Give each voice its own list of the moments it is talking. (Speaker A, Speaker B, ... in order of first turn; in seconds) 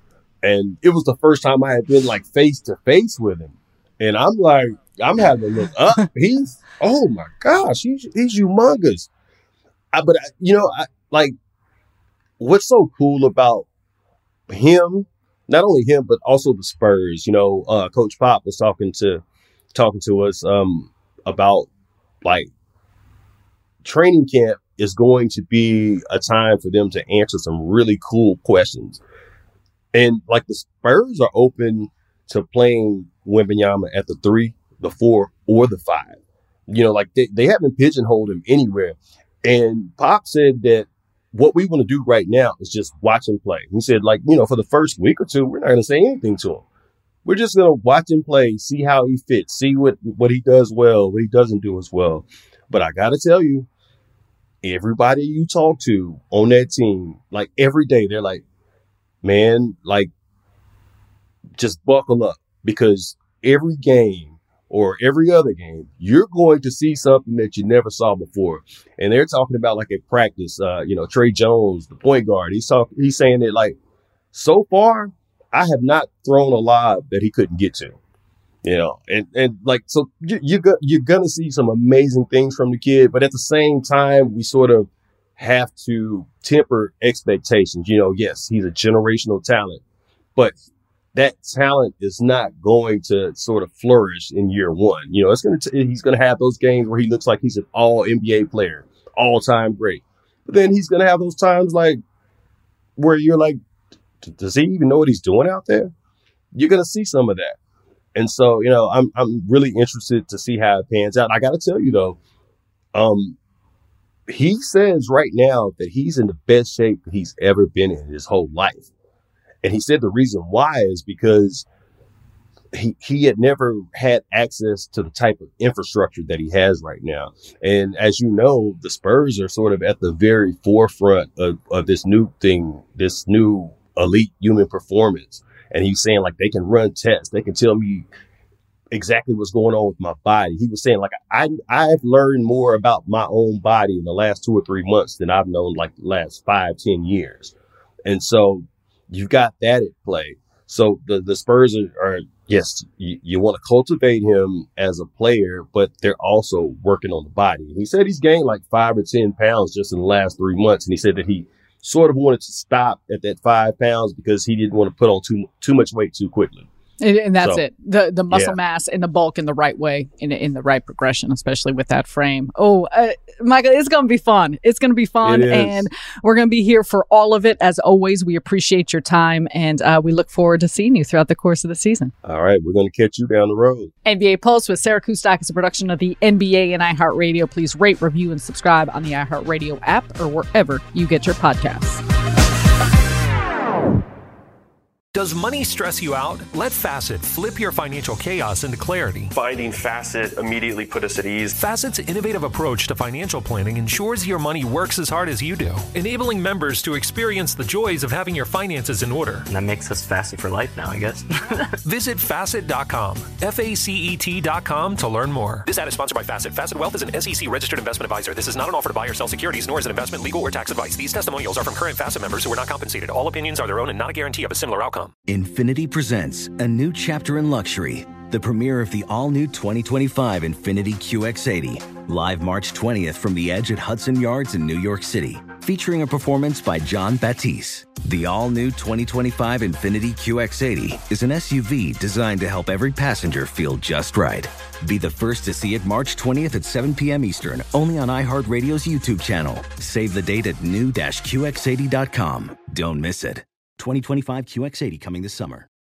Speaker A: 0.4-9.1, 9.9-11.3, 12.4-13.7, 14.5-21.7, 22.2-22.5, 23.8-29.0, 29.9-46.6, 47.2-53.7, 54.6-58.4, 59.2-60.1, 61.6-73.8, 74.3-78.0, 78.6-89.8, 91.1-102.0, 103.0-103.6, 104.2-105.9, 106.5-107.6, 108.1-112.2, 112.9-113.4, 114.3-118.9, 119.6-121.7, 122.7-138.1, 138.9-147.5, 148.0-166.7, 168.3-168.6, 175.2-175.8, 182.2-183.9
Speaker B: 167.0-182.1, 184.0-192.0
Speaker C: 195.1-199.3, 201.5-209.4, 211.8-225.1
Speaker D: 199.3-201.5
Speaker E: 209.5-211.7
Speaker F: 225.3-255.7